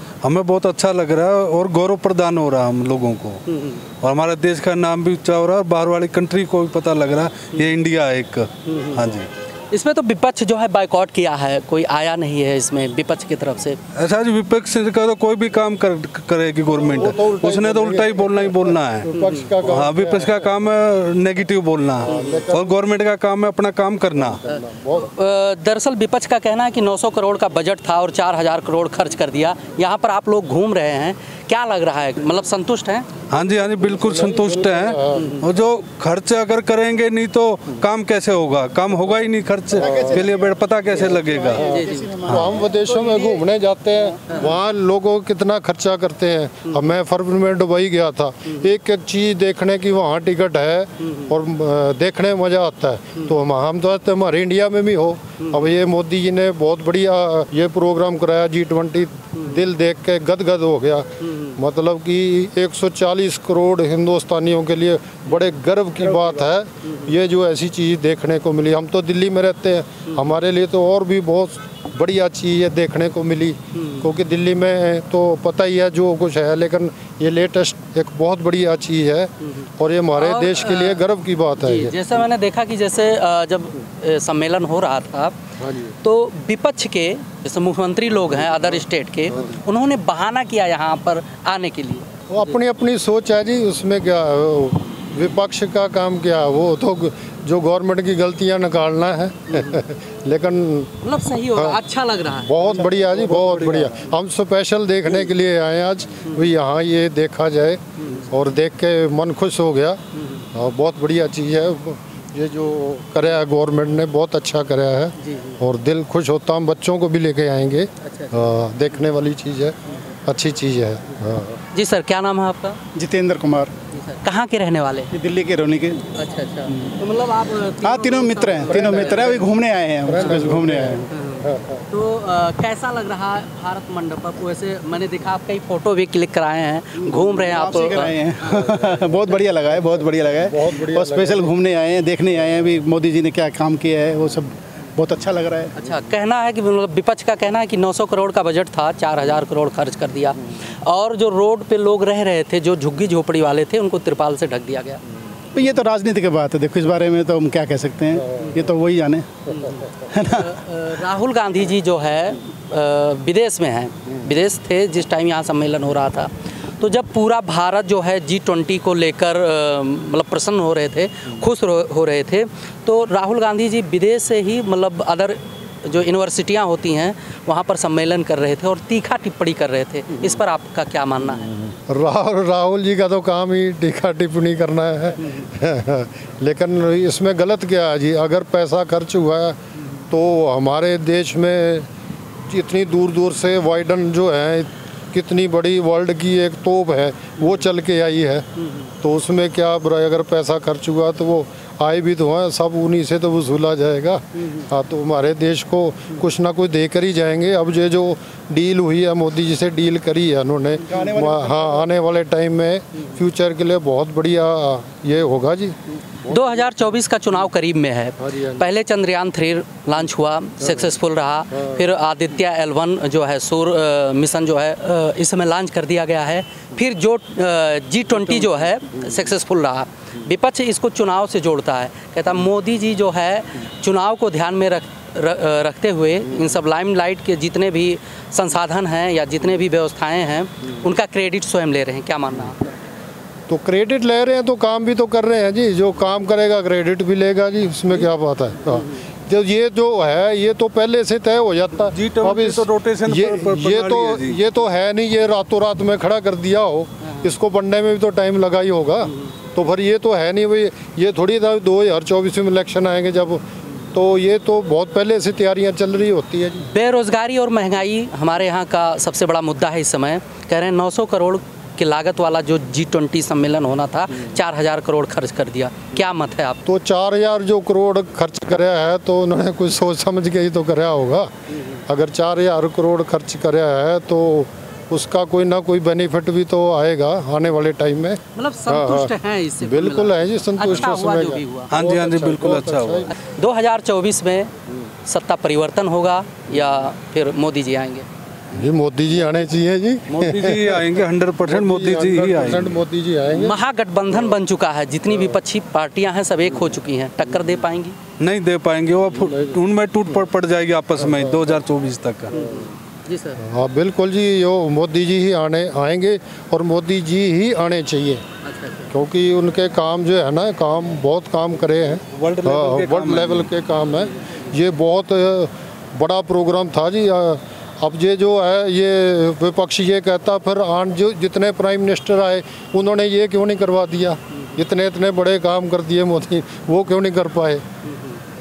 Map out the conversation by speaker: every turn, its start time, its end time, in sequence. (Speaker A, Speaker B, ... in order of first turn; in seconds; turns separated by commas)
Speaker A: 0.2-3.4, Speaker B: 3.5-3.8, Speaker A: 4.0-9.3, Speaker B: 8.7-9.1, Speaker B: 9.7-13.8, Speaker A: 13.9-19.1, Speaker C: 16.7-20.4, Speaker B: 19.2-19.6, Speaker A: 19.7-24.4, Speaker C: 22.0-22.8, Speaker B: 22.1-22.4, Speaker C: 24.3-25.1, Speaker B: 24.5-33.1, Speaker A: 33.3-41.6, Speaker C: 33.8-35.3, Speaker B: 35.1-35.4, Speaker D: 39.8-43.4, Speaker C: 39.8-40.3, Speaker B: 41.5-42.1, Speaker C: 41.6-81.9, Speaker A: 42.3-42.5, Speaker B: 61.2-61.5, Speaker B: 66.8-67.1, Speaker B: 73.8-74.0, Speaker B: 80.2-81.0, Speaker B: 81.6-85.4, Speaker C: 85.6-85.9, Speaker B: 86.0-92.6, Speaker C: 92.3-100.9, Speaker B: 99.5-99.8, Speaker B: 101.0-102.8, Speaker C: 101.5-101.8, Speaker C: 102.4-110.0, Speaker B: 108.0-108.3, Speaker B: 110.2-110.5, Speaker C: 110.5-119.8, Speaker B: 115.2-115.6, Speaker B: 118.0-118.5, Speaker C: 120.2-121.6, Speaker B: 121.7-122.8, Speaker D: 122.9-123.7, Speaker B: 123.9-125.1, Speaker D: 125.1-126.1, Speaker B: 126.1-129.4, Speaker D: 127.8-131.1, Speaker C: 128.7-129.4, Speaker C: 130.1-131.8, Speaker B: 131.1-138.8, Speaker D: 137.2-145.7, Speaker C: 140.5-141.5, Speaker B: 145.8-155.0, Speaker D: 155.5-160.5, Speaker B: 159.5-181.5, Speaker C: 181.6-189.6, Speaker C: 190.1-191.9, Speaker C: 192.5-198.4, Speaker C: 199.0-215.8, Speaker D: 210.8-211.9, Speaker B: 216.2-242.6, Speaker C: 218.2-218.7, Speaker C: 243.5-263.4, Speaker A: 251.9-254.4, Speaker B: 257.0-257.3, Speaker C: 263.9-266.7, Speaker B: 266.6-276.6, Speaker C: 276.6-281.3, Speaker C: 281.9-293.1, Speaker B: 288.4-291.8, Speaker A: 291.7-293.1, Speaker B: 293.2-294.5, Speaker B: 295.1-298.1, Speaker C: 298.5-300.8, Speaker A: 300.1-302.8, Speaker C: 301.4-303.6, Speaker B: 303.3-308.0, Speaker A: 308.2-312.3, Speaker C: 311.0-311.4, Speaker B: 312.3-313.4, Speaker C: 312.4-312.7, Speaker C: 313.4-318.2, Speaker B: 318.4-318.9, Speaker C: 318.9-337.6, Speaker A: 322.1-323.5, Speaker B: 337.9-338.2